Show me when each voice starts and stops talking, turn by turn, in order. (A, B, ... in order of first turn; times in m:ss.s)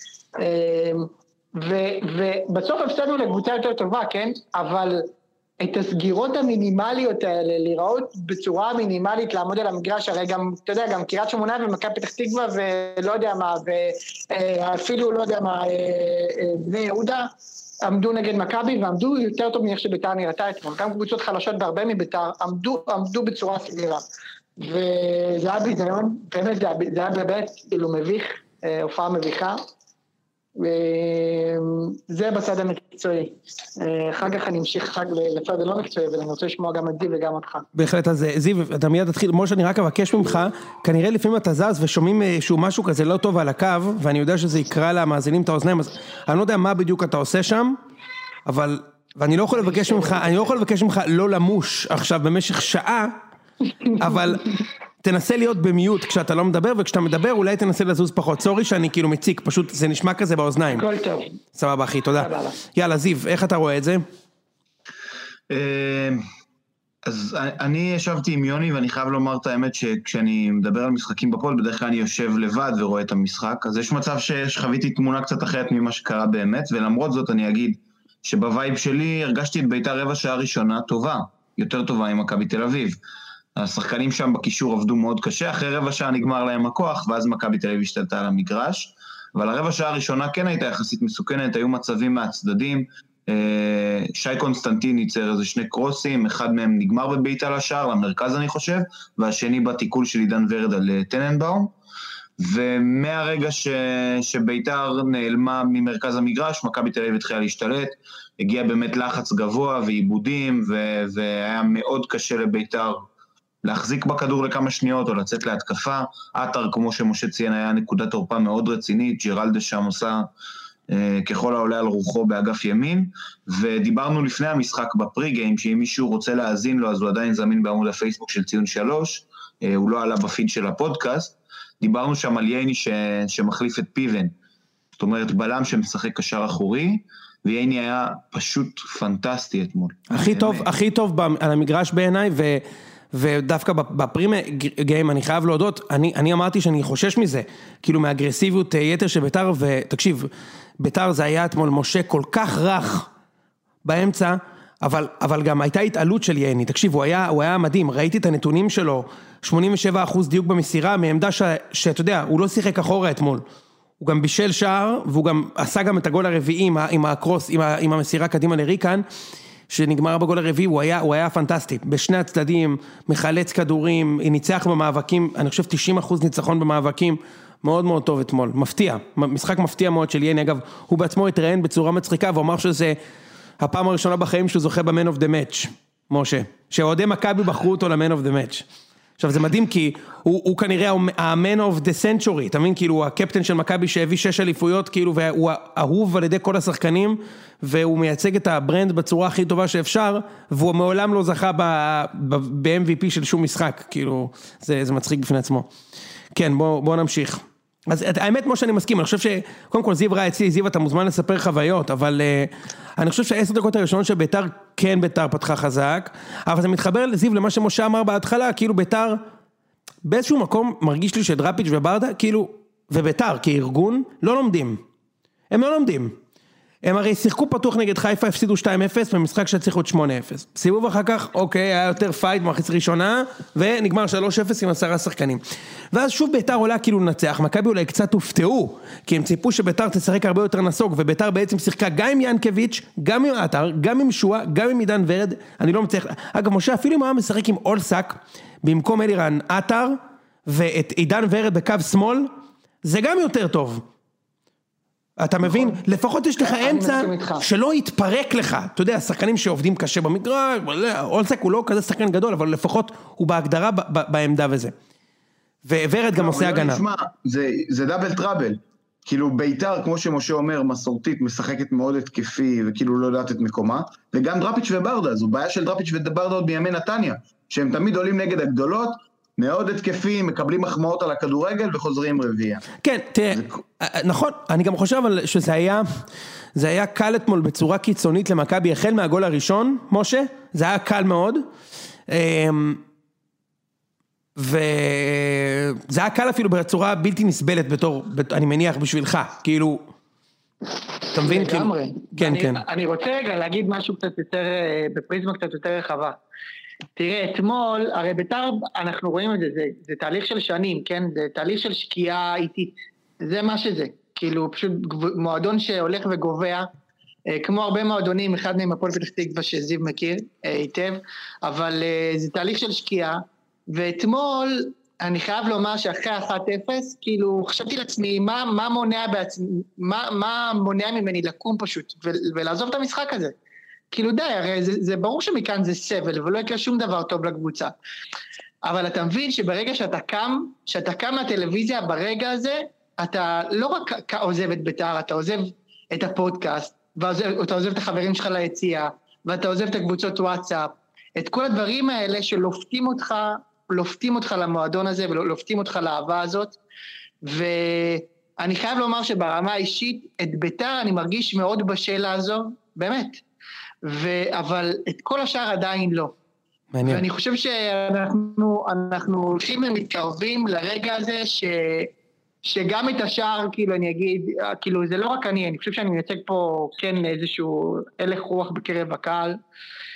0:00.4-0:24.0 A
0:24.6-0:29.6 A
0:30.6-0:37.7 A
0:37.8-0:47.8 B
0:48.5-0:53.2 B
0:49.6-0:50.5 A
0:54.0-1:00.8 B
1:00.7-1:01.4 A
1:01.6-1:04.0 B
1:02.2-1:02.6 A
1:05.5-1:06.2 C
1:07.0-1:23.0 C
1:23.6-1:41.7 C
1:42.4-1:53.1 C
1:53.6-2:00.3 C
2:00.9-2:14.3 C
2:15.0-2:20.7 C
2:20.1-2:33.1 B
2:33.8-2:43.4 B
2:44.0-2:49.1 B
2:49.7-3:03.0 B
3:03.6-3:08.7 B
3:09.2-3:25.7 B
3:26.3-3:39.2 B
3:40.0-3:44.8 B
3:45.5-3:46.2 B
3:46.8-3:55.4 B
3:55.9-4:12.3 B
4:12.8-4:13.8 B
4:15.2-4:24.7 B
4:15.5-4:15.8 A
4:16.4-4:17.4 A
4:25.6-4:26.8 B
4:26.2-4:42.7 C
4:42.8-4:45.9 B
4:46.6-4:51.5 B
4:52.1-4:52.8 B
4:54.4-4:59.8 B
5:01.1-5:02.6 B
5:01.2-5:06.2 A
5:07.0-5:16.7 A
5:17.3-5:33.3 A
5:33.9-5:37.7 A
5:38.6-5:56.6 A
5:57.2-6:03.2 A
6:03.8-6:06.1 A
6:06.7-6:07.0 B
6:06.8-6:11.9 A
6:12.4-6:19.4 A